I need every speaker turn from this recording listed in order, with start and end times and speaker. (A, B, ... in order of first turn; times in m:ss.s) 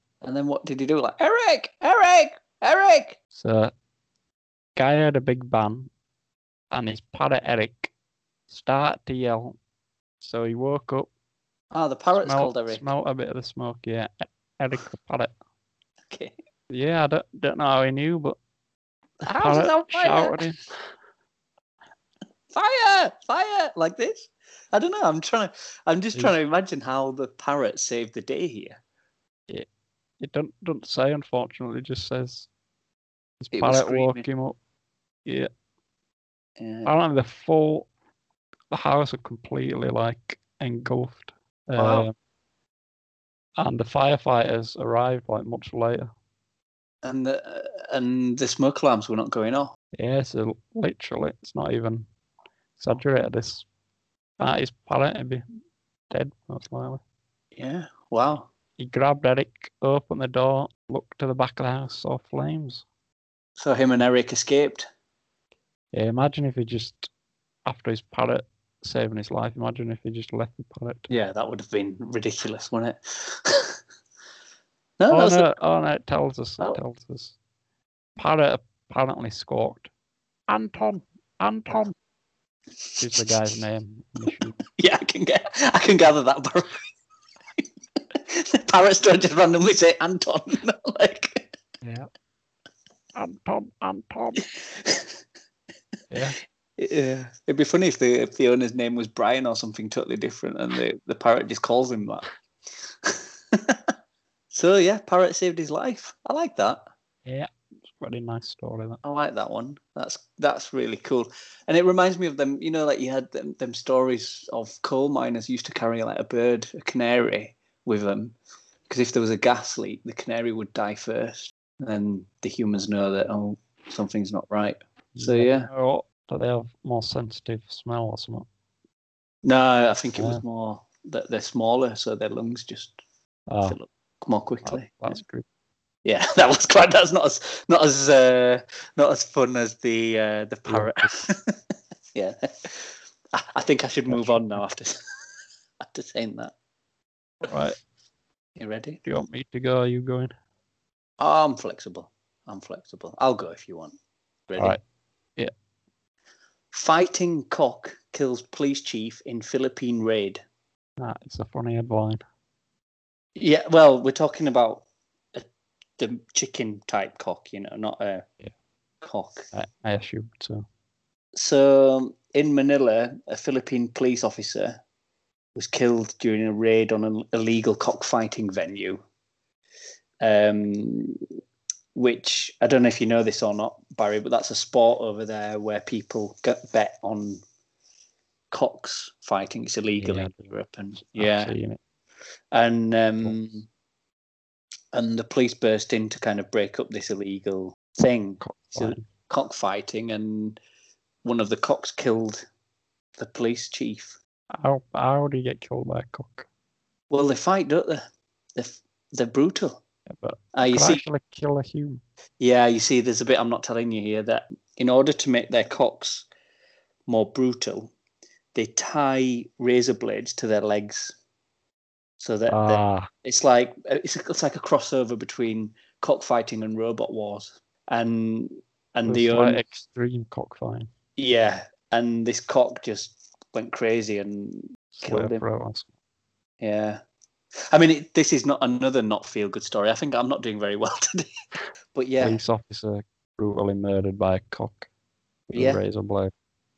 0:00.2-0:03.2 A
0:03.3-0:03.7 B
0:04.8-0:05.9 B
0:06.7-0:07.9 B
0:08.5-0:09.6 B
0:10.2-0:11.1 B
0:11.7-0:12.9 A
0:12.2-0:15.3 B
0:16.7-0:18.4 B
0:19.2-0:20.4 A
0:19.2-0:20.8 B
0:22.5-0:28.8 A
0:30.2-0:32.5 B
0:33.4-0:34.6 B
0:33.5-0:34.2 A
0:36.6-0:36.9 A
0:36.8-0:37.9 B
0:38.7-0:42.1 B
0:41.8-0:42.1 A
0:43.6-0:46.1 B
0:47.0-0:49.7 A
0:50.0-0:52.1 B
0:52.8-0:53.6 B
0:54.4-0:55.4 B
0:56.1-0:57.0 B
0:57.6-0:58.5 A
0:58.8-1:02.8 B
1:03.6-1:04.8 A
1:05.9-1:07.1 B
1:07.6-1:11.1 B
1:11.1-1:13.8 A
1:15.0-1:15.5 A
1:15.1-1:17.4 B
1:18.2-1:19.9 B
1:20.5-1:21.9 B
1:23.0-1:24.6 B
1:24.8-1:26.8 A
1:27.6-1:31.5 A
1:31.8-1:32.1 B
1:33.1-1:34.5 B
1:36.1-1:36.4 B
1:36.8-1:42.2 A
1:43.0-1:43.8 A
1:44.5-1:46.8 A
1:47.2-1:49.0 B
1:49.0-1:58.4 A
1:58.9-2:05.7 A
2:05.1-2:08.4 B
2:09.4-2:12.9 A
2:10.2-2:10.4 B
2:13.5-2:13.8 B
2:13.6-2:15.2 A
2:14.6-2:15.4 B
2:16.0-2:21.6 A
2:20.7-2:21.1 B
2:22.1-2:25.0 A
2:24.1-2:24.6 B
2:25.8-2:26.5 A
2:27.4-2:27.8 B
2:28.6-2:29.0 A
2:29.0-2:30.3 B
2:31.2-2:33.9 A
2:34.5-2:34.8 A
2:36.7-2:40.4 A
2:41.0-2:42.2 B
2:43.4-2:45.4 A
2:46.0-2:48.2 A
2:49.0-2:49.5 A
2:49.5-2:50.6 B
2:51.4-2:54.8 A
2:55.5-2:59.0 A
3:00.2-3:01.2 A
3:01.9-3:07.4 A
3:08.5-3:11.5 A
3:10.0-3:10.5 B
3:11.1-3:11.8 B
3:12.5-3:13.7 A
3:14.9-3:20.6 A
3:18.4-3:19.0 B
3:21.2-3:22.4 A
3:23.2-3:24.2 A
3:24.5-3:26.4 B
3:27.1-3:28.0 A
3:28.6-3:29.8 A
3:30.1-3:32.0 B
3:30.5-3:31.0 A
3:32.4-3:36.2 A
3:37.1-3:37.9 A
3:38.5-3:41.2 A
3:42.2-3:49.6 A
3:42.5-3:43.1 B
3:49.1-3:50.9 B
3:51.2-3:55.4 A
3:55.0-3:55.8 B
3:56.6-3:57.0 A
3:57.7-4:01.3 A
4:01.9-4:02.4 A
4:02.2-4:04.9 B
4:05.5-4:06.3 B
4:05.5-4:05.8 A